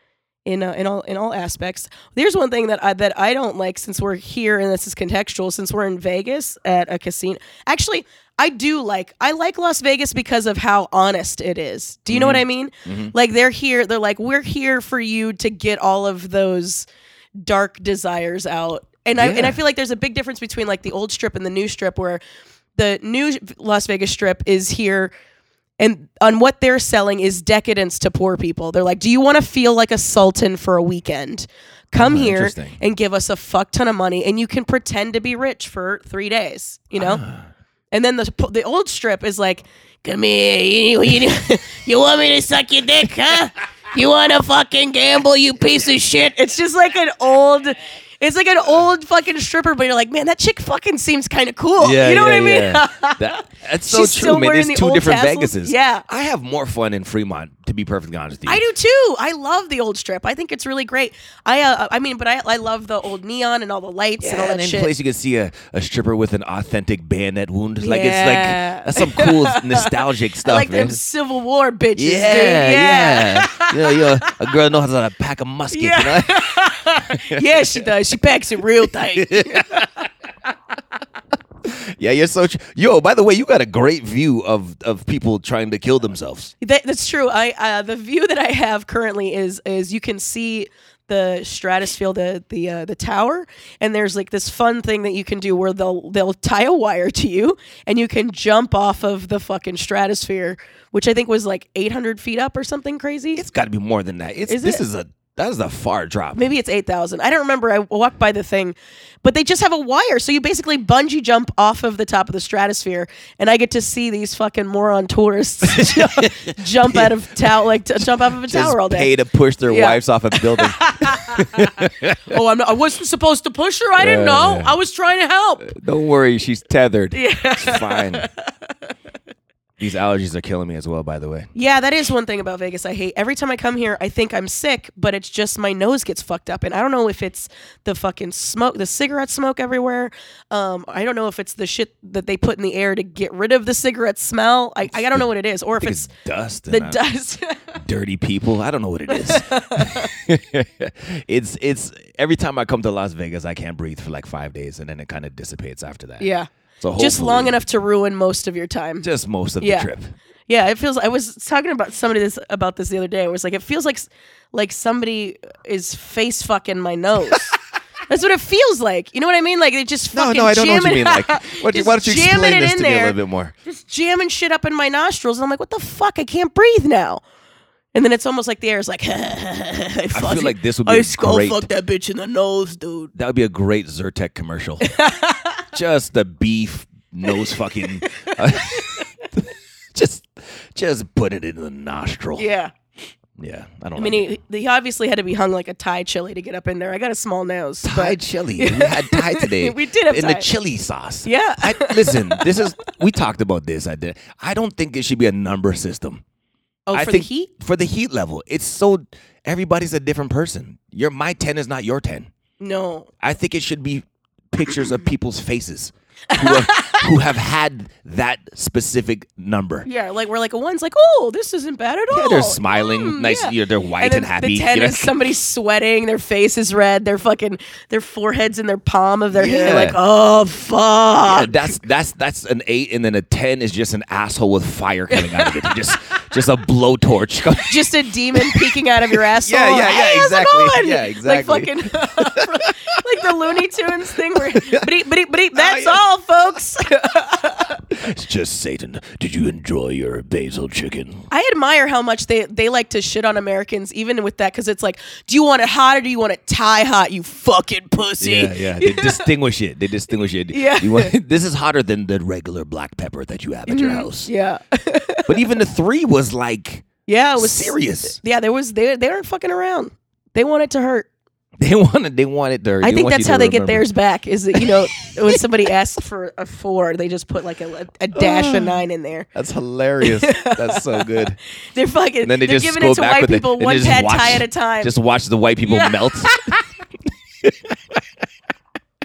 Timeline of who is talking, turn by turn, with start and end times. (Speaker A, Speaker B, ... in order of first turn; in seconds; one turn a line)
Speaker A: 0.5-16.9
Speaker B: 12.1-13.1
Speaker A: 17.4-22.2
Speaker B: 19.1-19.6
Speaker A: 22.8-25.1
Speaker A: 25.8-37.2
Speaker B: 31.9-32.8
Speaker B: 37.0-37.5
Speaker A: 37.9-56.0
Speaker B: 51.8-58.6
Speaker A: 58.5-64.9
Speaker B: 64.2-71.0
Speaker A: 67.8-74.3
Speaker B: 72.0-77.9
Speaker A: 75.7-79.9
Speaker B: 79.1-80.0
Speaker B: 81.6-86.5
Speaker A: 86.6-103.4
Speaker B: 103.3-106.4
Speaker A: 104.5-104.8
Speaker A: 106.3-119.1
Speaker B: 115.6-117.5
Speaker B: 118.0-122.4
Speaker A: 119.7-125.7
Speaker B: 124.0-124.7
Speaker B: 125.6-128.3
Speaker A: 127.1-128.3
Speaker B: 129.8-131.5
Speaker A: 131.5-146.1
Speaker B: 144.9-145.3
Speaker B: 145.8-147.0
Speaker A: 146.7-147.8
Speaker B: 147.8-156.3
Speaker A: 149.1-150.1
Speaker A: 156.2-159.1
Speaker B: 156.8-157.6
Speaker B: 159.0-160.1
Speaker A: 159.6-159.9
Speaker A: 160.5-167.5
Speaker A: 168.1-173.2
Speaker B: 170.1-173.5
Speaker A: 173.7-177.2
Speaker A: 177.9-183.1
Speaker B: 180.1-181.7
Speaker B: 183.1-184.9
Speaker A: 184.8-185.6
Speaker B: 185.7-192.5
Speaker A: 188.0-189.1
Speaker A: 192.4-192.7
Speaker B: 193.4-194.3
Speaker A: 193.9-200.5
Speaker B: 197.8-206.2
Speaker A: 201.2-202.5
Speaker A: 206.9-207.5
Speaker B: 206.9-212.3
Speaker A: 212.6-213.1
Speaker B: 213.2-219.9
Speaker A: 216.3-217.1
Speaker A: 219.8-231.6
Speaker B: 222.1-225.1
Speaker B: 229.3-230.0
Speaker B: 231.2-237.8
Speaker A: 235.1-235.7
Speaker A: 237.7-247.8
Speaker B: 238.4-238.8
Speaker B: 239.3-242.7
Speaker B: 244.3-244.9
Speaker B: 245.5-246.0
Speaker B: 247.9-251.3
Speaker A: 251.3-259.3
Speaker B: 258.2-264.3
Speaker A: 260.5-261.1
Speaker A: 263.7-265.3
Speaker B: 265.3-268.2
Speaker A: 267.1-271.1
Speaker B: 271.6-273.8
Speaker A: 272.8-279.3
Speaker B: 278.1-278.8
Speaker B: 279.3-281.4
Speaker A: 280.0-281.1
Speaker A: 281.7-284.9
Speaker B: 282.2-286.4
Speaker A: 285.7-286.6
Speaker B: 287.4-288.0